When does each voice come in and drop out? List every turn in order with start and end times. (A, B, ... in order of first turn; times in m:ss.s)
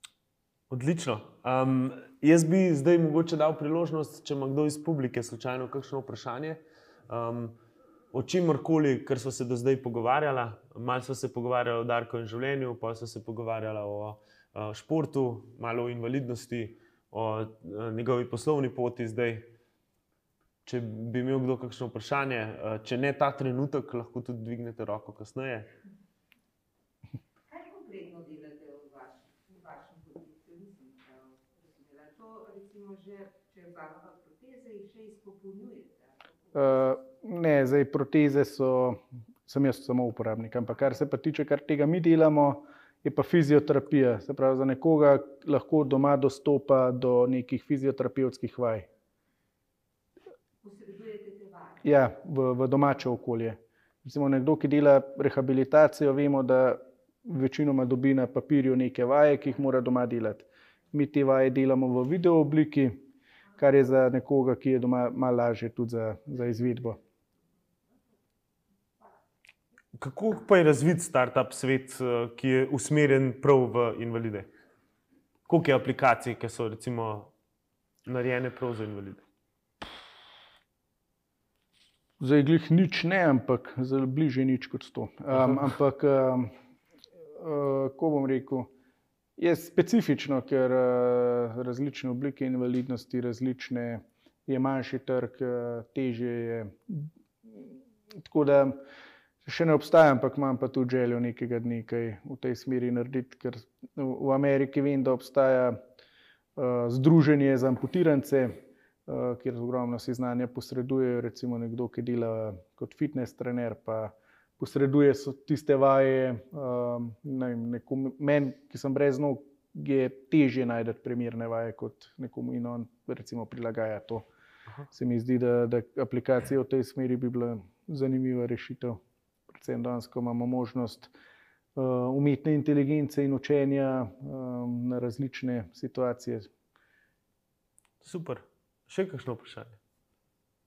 0:00.7-0:07.6 A
0:08.1-0:19.5 A
0:20.6-0:25.7 A
0:27.5-0:36.8 B
0:36.5-0:48.9 C
0:50.6-0:51.8 B
0:51.8-1:03.0 C
1:03.6-1:07.0 C
1:10.0-1:14.5 A
1:15.5-1:17.3 A
1:18.0-1:19.2 A
1:22.2-1:26.5 C
1:27.4-1:28.7 C
1:29.4-1:37.7 C
1:38.2-1:38.8 C
1:39.4-1:45.8 C
1:46.6-2:04.2 C
2:04.9-2:11.1 C
2:11.8-2:16.5 C
2:18.0-2:19.8 A